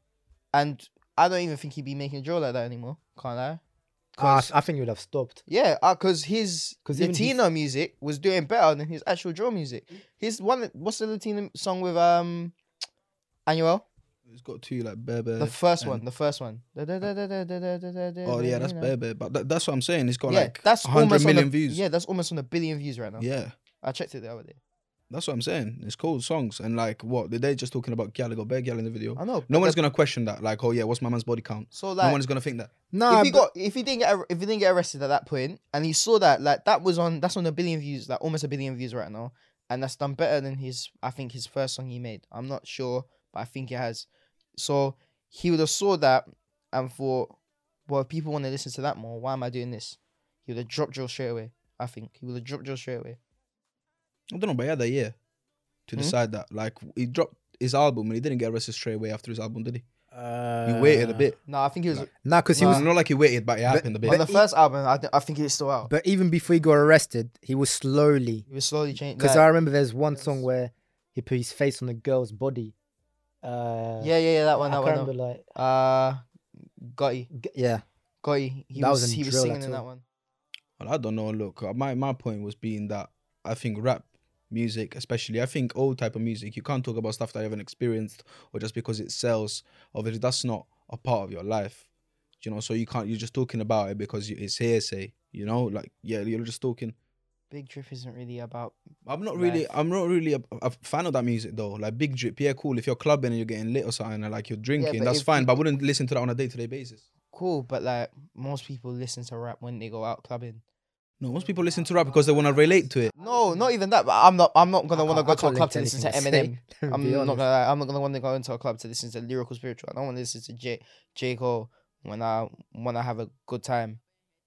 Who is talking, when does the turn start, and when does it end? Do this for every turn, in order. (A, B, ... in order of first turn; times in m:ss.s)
0:00.5-0:03.6 A
0:04.2-0:04.5 A
0:04.2-0:05.4 B
0:05.5-0:12.6 A
0:06.9-0:07.4 B
0:13.5-0:13.9 A
0:14.3-0:16.0 C
0:15.4-0:18.9 A
0:18.2-0:21.8 C
0:20.3-0:23.3 A
0:23.2-0:23.5 C
0:23.8-0:24.6 A
0:25.1-0:32.7 C
0:29.2-0:29.8 A
0:31.7-0:32.2 A
0:32.9-0:33.5 B
0:33.1-0:47.4 A
0:47.9-0:53.2 A
0:54.3-0:55.2 C
0:55.9-0:59.9 C
1:00.1-1:01.3 B
1:00.6-1:01.4 C
1:01.5-1:02.9 A
1:01.9-1:04.2 C
1:02.2-1:02.9 B
1:03.7-1:04.4 B
1:04.0-1:05.9 A
1:05.9-1:08.4 B
1:08.5-1:09.5 A
1:09.2-1:12.8 B
1:13.4-1:15.5 B
1:14.0-1:16.2 A
1:16.8-1:17.3 A
1:17.3-1:17.8 B
1:18.2-1:20.0 A
1:18.8-1:19.8 B
1:20.8-1:31.8 C
1:32.4-1:37.0 C
1:37.5-1:38.8 A
1:39.1-1:47.0 C
1:39.3-1:39.6 A
1:44.8-1:45.6 A
1:47.3-1:50.6 A
1:51.2-1:53.1 C
1:53.2-2:04.0 A
1:54.9-1:57.4 B